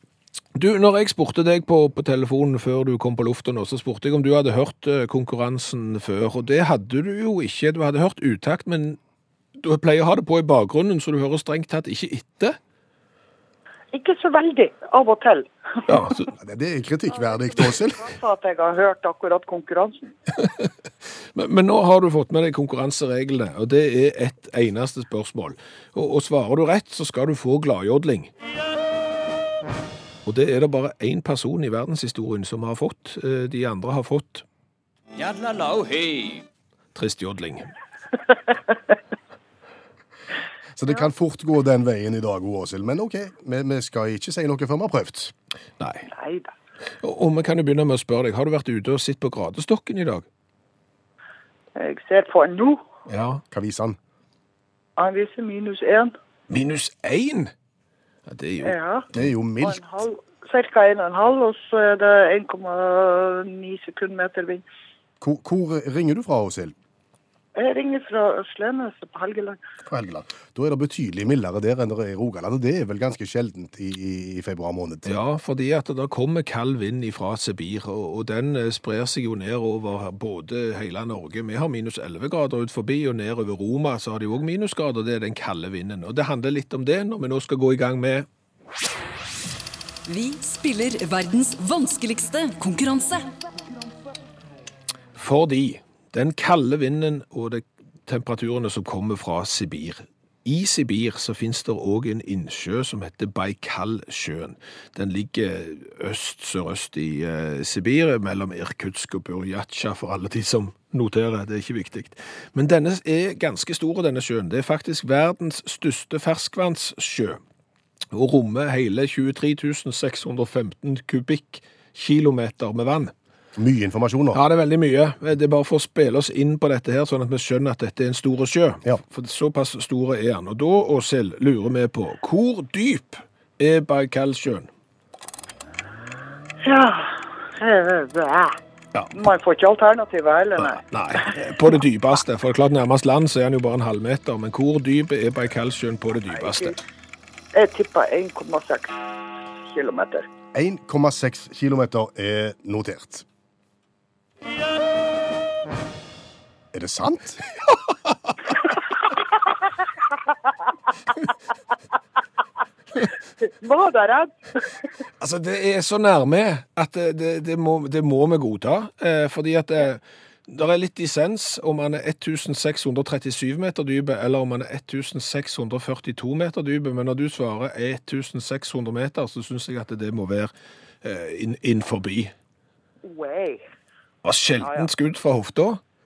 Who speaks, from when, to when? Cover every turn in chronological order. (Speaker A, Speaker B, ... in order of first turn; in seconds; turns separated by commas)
Speaker A: 0.5-9.0, Speaker A: 9.6-12.6, Speaker B: 13.9-15.5, Speaker A: 15.9-16.3, Speaker C: 16.3-18.1, Speaker B: 17.1-20.1, Speaker A: 20.4-20.7, Speaker A: 21.3-28.3, Speaker A: 30.2-34.4, Speaker A: 36.9-37.7, Speaker C: 40.8-45.3, Speaker A: 45.8-46.1, Speaker B: 46.1-46.5, Speaker A: 47.0-50.2, Speaker B: 51.7-52.8, Speaker A: 53.1-53.4, Speaker C: 53.5-54.0, Speaker B: 55.0-56.1, Speaker A: 56.5-57.5, Speaker A: 58.2-58.8, Speaker B: 58.6-59.1, Speaker C: 59.1-59.8, Speaker B: 59.6-64.6, Speaker C: 65.2-66.7, Speaker B: 67.5-69.6, Speaker C: 69.8-75.1, Speaker A: 75.0-88.3, Speaker D: 90.1-93.3, Speaker A: 95.1-117.4, Speaker A: 118.1-123.1, Speaker C: 123.5-124.4, Speaker A: 124.3-134.7, Speaker B: 136.6-138.6, Speaker B: 139.1-140.8, Speaker A: 140.6-146.7, Speaker B: 146.4-146.7, Speaker B: 147.5-149.0, Speaker B: 149.6-150.2, Speaker C: 150.5-153.2, Speaker C: 156.7-157.4, Speaker B: 163.4-164.7, Speaker A: 165.2-180.5, Speaker A: 181.0-182.3, Speaker B: 183.0-183.6, Speaker A: 184.2-185.8